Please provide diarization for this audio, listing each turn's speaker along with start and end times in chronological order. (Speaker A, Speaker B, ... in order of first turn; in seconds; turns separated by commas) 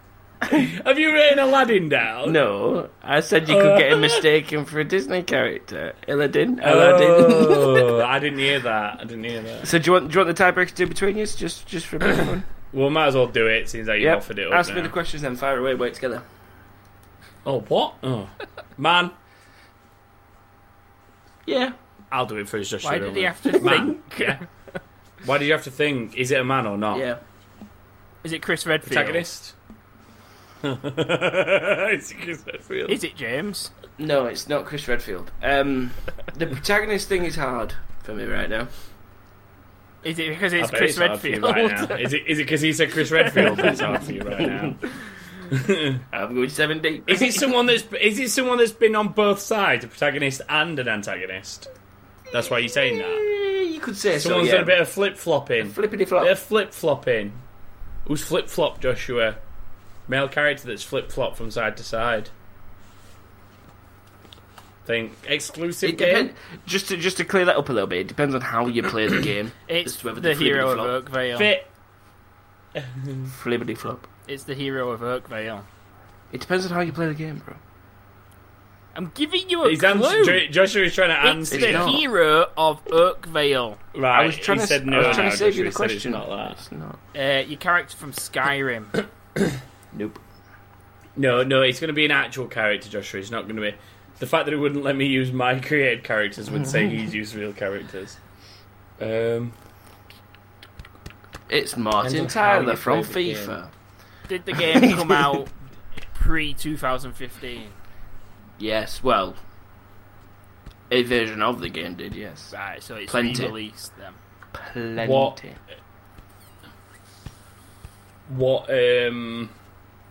Speaker A: 0.5-2.4, Speaker B: 2.2-8.0, Speaker A: 3.5-4.2, Speaker A: 6.6-9.7, Speaker B: 9.6-12.5, Speaker A: 12.7-14.9, Speaker B: 14.0-16.2, Speaker A: 17.4-19.1, Speaker B: 21.4-21.7, Speaker A: 22.1-24.4, Speaker C: 22.8-24.4, Speaker A: 25.2-27.1, Speaker B: 26.9-27.2, Speaker C: 28.2-29.2, Speaker A: 28.8-29.6, Speaker A: 30.6-33.0, Speaker C: 32.9-33.7, Speaker B: 34.0-38.7, Speaker C: 40.0-42.1, Speaker A: 40.6-44.8, Speaker C: 43.2-43.8, Speaker B: 43.5-44.8, Speaker A: 45.5-46.0, Speaker B: 46.1-47.5, Speaker A: 47.1-51.7, Speaker A: 52.3-53.2, Speaker B: 52.7-54.8, Speaker A: 54.1-57.4, Speaker B: 55.6-56.3, Speaker A: 58.0-59.4, Speaker A: 60.1-62.3, Speaker A: 64.8-66.3, Speaker B: 65.8-71.0, Speaker C: 69.7-71.5, Speaker A: 71.3-71.7, Speaker A: 72.7-73.3, Speaker B: 73.3-74.0, Speaker C: 74.3-75.7, Speaker B: 76.3-77.6, Speaker C: 78.9-80.5, Speaker A: 79.6-82.0, Speaker C: 81.2-83.8, Speaker B: 81.5-82.0, Speaker A: 83.9-86.6, Speaker B: 84.1-87.0, Speaker C: 85.0-85.4, Speaker C: 87.1-89.0, Speaker B: 89.9-90.2, Speaker A: 91.2-98.2, Speaker A: 99.0-99.5, Speaker B: 101.5-103.7, Speaker A: 102.0-103.5, Speaker C: 104.3-107.8, Speaker B: 104.6-105.3, Speaker B: 108.6-109.4, Speaker B: 110.9-112.5, Speaker C: 112.5-114.2, Speaker B: 113.1-113.5, Speaker B: 114.5-115.6, Speaker A: 115.0-115.4, Speaker A: 118.3-119.5